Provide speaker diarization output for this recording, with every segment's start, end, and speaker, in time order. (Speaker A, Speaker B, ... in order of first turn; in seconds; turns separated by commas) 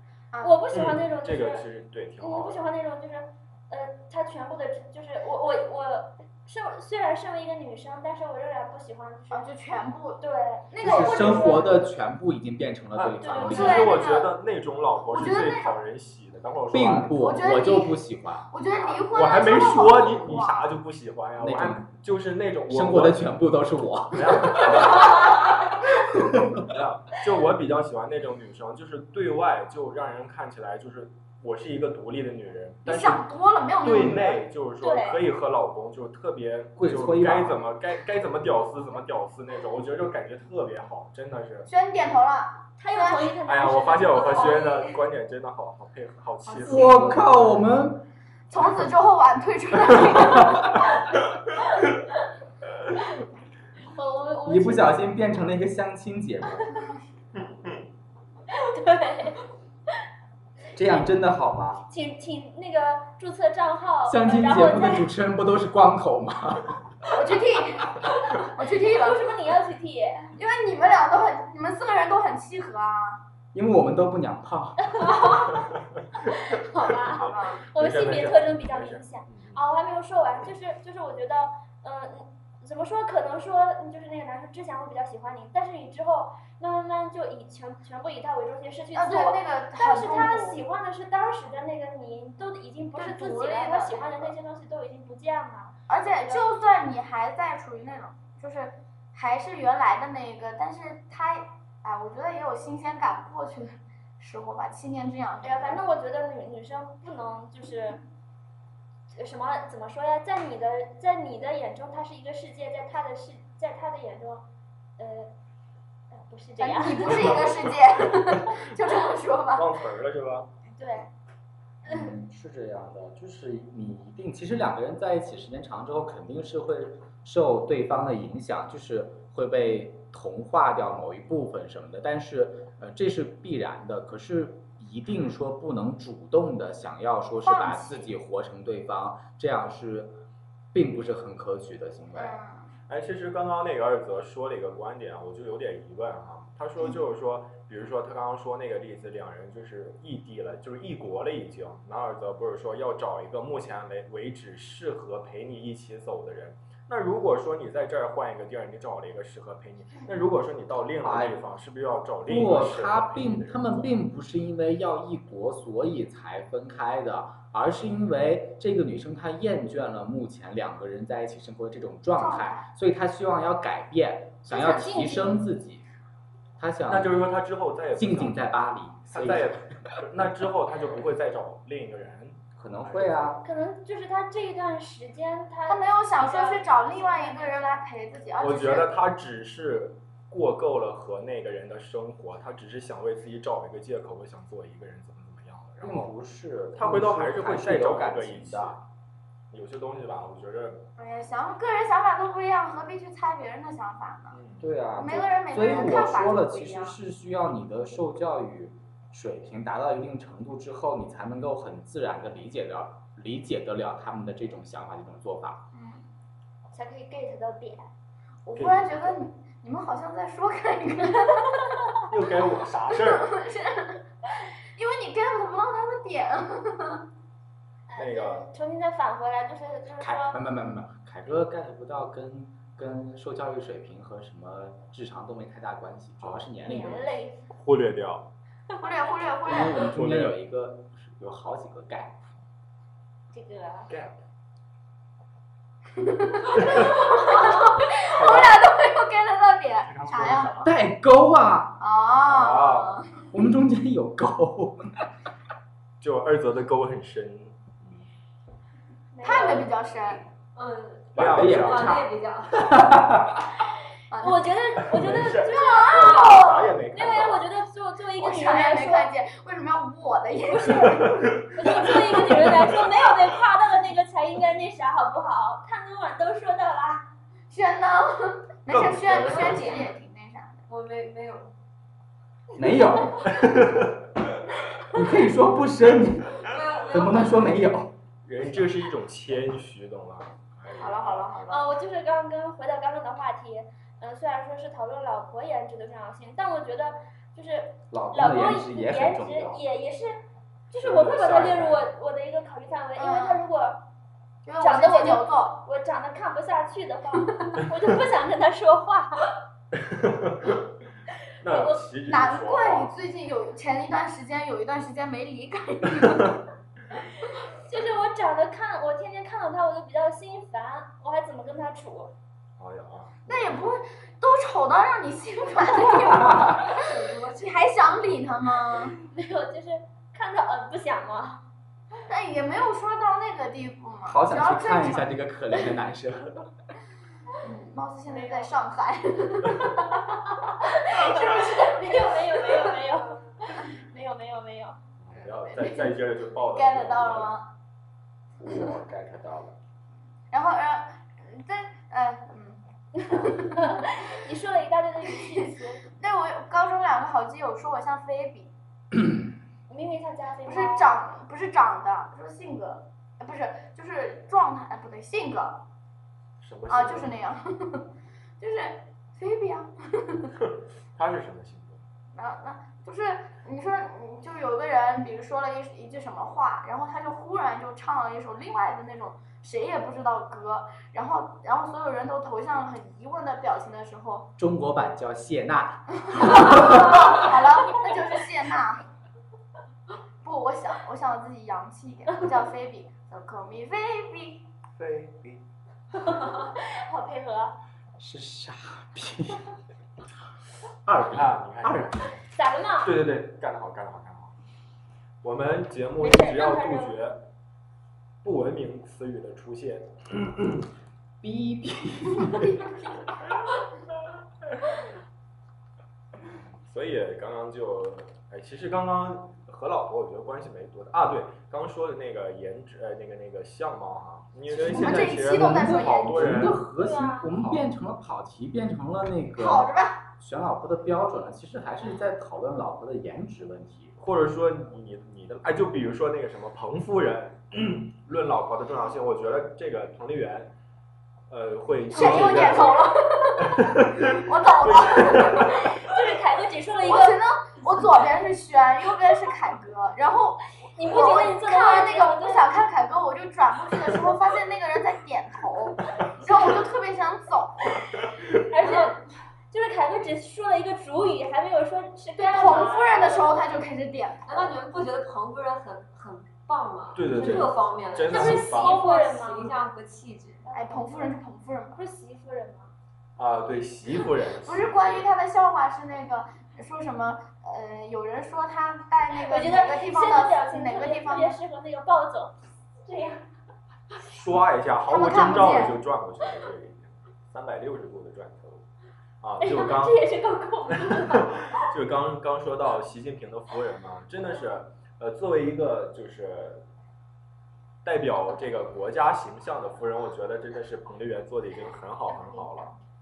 Speaker A: 0.3-0.6, Speaker B: 0.4-1.6, Speaker C: 0.7-2.6, Speaker B: 2.2-11.8, Speaker A: 9.3-11.7, Speaker D: 10.8-13.9, Speaker C: 12.9-17.2, Speaker B: 13.2-13.9, Speaker A: 13.3-14.3, Speaker A: 15.1-15.8, Speaker D: 16.7-18.5, Speaker A: 17.2-18.0, Speaker A: 18.5-20.7, Speaker C: 18.8-23.3, Speaker D: 21.4-21.9, Speaker D: 22.7-26.7, Speaker C: 24.1-25.6, Speaker C: 26.5-33.2, Speaker A: 32.8-34.4, Speaker C: 33.8-41.7, Speaker B: 34.8-35.2, Speaker D: 36.8-37.6, Speaker A: 41.6-43.4, Speaker B: 42.8-45.0, Speaker C: 43.5-47.0, Speaker A: 46.5-47.5, Speaker D: 46.6-48.0, Speaker A: 48.5-50.9, Speaker B: 53.9-55.1, Speaker D: 54.4-56.8, Speaker C: 57.4-57.7, Speaker B: 58.5-59.4, Speaker D: 60.7-61.8, Speaker B: 61.9-65.1, Speaker D: 64.0-66.9, Speaker A: 67.0-69.3, Speaker B: 68.7-70.3, Speaker A: 70.3-73.2, Speaker D: 73.5-75.2, Speaker B: 74.9-75.5, Speaker C: 75.3-75.8, Speaker B: 76.2-96.5, Speaker C: 77.1-79.6, Speaker A: 77.2-77.6, Speaker A: 88.9-90.6, Speaker A: 93.0-94.3, Speaker A: 95.9-105.8, Speaker B: 105.4-108.0, Speaker B: 109.1-114.5, Speaker B: 115.0-115.3, Speaker B: 116.1-117.5, Speaker A: 116.6-119.7, Speaker C: 117.1-117.6, Speaker C: 119.5-120.5, Speaker B: 120.7-121.1, Speaker D: 121.8-140.2, Speaker A: 137.4-138.1, Speaker D: 140.7-142.4, Speaker A: 142.1-142.7, Speaker C: 142.9-163.9, Speaker D: 161.0-161.4, Speaker D: 162.2-175.8, Speaker A: 172.2-172.7, Speaker B: 174.5-175.4, Speaker D: 176.6-177.3, Speaker C: 176.9-178.4, Speaker D: 177.9-180.1, Speaker C: 179.1-183.3, Speaker D: 182.6-183.4, Speaker B: 183.4-187.8, Speaker A: 185.7-188.9, Speaker C: 188.4-196.1, Speaker D: 195.8-198.8, Speaker C: 196.8-198.8, Speaker C: 199.5-200.9, Speaker A: 201.0-204.4, Speaker C: 204.3-204.7, Speaker D: 204.6-215.7, Speaker A: 204.9-206.9, Speaker A: 215.7-216.1, Speaker B: 216.7-217.9, Speaker A: 218.4-221.8, Speaker C: 218.5-219.0, Speaker C: 222.1-223.3, Speaker A: 222.4-227.0, Speaker B: 227.9-230.4, Speaker C: 227.9-228.5, Speaker D: 230.0-237.1, Speaker C: 236.2-236.5, Speaker B: 236.6-237.4, Speaker C: 237.5-238.3, Speaker A: 238.8-239.9, Speaker D: 239.4-242.2, Speaker C: 239.7-240.4, Speaker B: 243.3-243.9, Speaker C: 243.9-244.2, Speaker A: 245.9-250.7, Speaker C: 248.1-248.6, Speaker C: 249.8-250.7, Speaker D: 250.6-251.8, Speaker A: 251.8-253.2, Speaker C: 252.2-253.0, Speaker D: 253.3-255.0, Speaker C: 256.0-258.1, Speaker B: 259.1-259.7, Speaker A: 259.2-260.2, Speaker E: 260.5-263.1, Speaker C: 261.1-262.0, Speaker D: 261.2-263.5, Speaker A: 264.1-264.5, Speaker B: 264.2-269.1, Speaker C: 264.9-267.5, Speaker A: 265.4-266.6, Speaker A: 268.1-271.5, Speaker B: 270.6-270.8, Speaker C: 270.8-271.5, Speaker B: 271.4-277.1, Speaker A: 277.5-280.6, Speaker C: 278.7-279.8, Speaker E: 279.0-279.9, Speaker E: 280.7-281.5, Speaker D: 282.5-283.4, Speaker C: 283.3-284.0, Speaker D: 284.9-287.9, Speaker E: 286.4-287.5, Speaker C: 288.2-291.5, Speaker A: 290.8-291.6, Speaker B: 291.5-303.8, Speaker D: 297.9-299.6, Speaker C: 300.8-301.9, Speaker A: 302.9-303.4, Speaker A: 304.4-305.6, Speaker B: 304.6-309.1, Speaker C: 309.7-310.6, Speaker C: 311.4-312.9, Speaker B: 311.5-311.8, Speaker A: 312.1-316.4, Speaker B: 317.5-322.1, Speaker C: 322.6-323.2, Speaker A: 323.3-328.9, Speaker E: 326.6-327.7, Speaker B: 329.0-331.4, Speaker A: 332.1-335.2, Speaker D: 334.1-336.4, Speaker A: 337.4-339.9, Speaker B: 338.1-338.5, Speaker B: 340.3-344.8, Speaker A: 340.9-342.1, Speaker C: 345.0-347.4, Speaker A: 345.1-347.5, Speaker D: 348.4-349.5, Speaker A: 350.3-353.9, Speaker B: 353.1-355.8, Speaker A: 355.9-358.5, Speaker B: 359.7-360.9, Speaker A: 360.4-365.6, Speaker C: 366.4-367.1, Speaker A: 366.7-370.3, Speaker C: 370.4-371.8, Speaker A: 372.1-384.3, Speaker D: 384.4-387.2, Speaker A: 386.1-388.8, Speaker A: 390.2-394.5, Speaker C: 394.7-395.4, Speaker B: 396.0-397.6, Speaker D: 398.0-399.5, Speaker D: 400.8-401.9, Speaker C: 401.1-402.0, Speaker B: 402.3-402.9, Speaker C: 402.8-404.3, Speaker C: 405.2-407.2, Speaker B: 406.0-407.0, Speaker C: 408.2-410.6, Speaker D: 411.2-412.7, Speaker C: 416.6-426.6, Speaker D: 424.5-433.9, Speaker A: 424.6-426.5, Speaker B: 426.8-427.3, Speaker C: 427.3-427.6, Speaker A: 429.4-430.0, Speaker C: 434.0-440.6, Speaker C: 441.3-442.8, Speaker A: 441.9-445.6, Speaker B: 441.9-442.9, Speaker C: 443.4-445.6, Speaker B: 444.8-447.2, Speaker A: 446.8-458.0, Speaker B: 450.8-452.6, Speaker B: 458.5-463.3, Speaker A: 462.2-464.5, Speaker E: 464.3-470.5, Speaker C: 466.9-468.8, Speaker B: 468.1-469.6, Speaker B: 470.5-471.1, Speaker A: 470.5-471.8, Speaker B: 471.7-472.7, Speaker C: 473.2-475.1, Speaker A: 474.4-481.4, Speaker B: 479.1-483.2, Speaker C: 484.1-488.6, Speaker A: 484.9-485.8, Speaker C: 489.2-490.0, Speaker B: 489.4-491.3, Speaker C: 490.8-496.6, Speaker C: 497.8-502.7, Speaker B: 502.1-502.7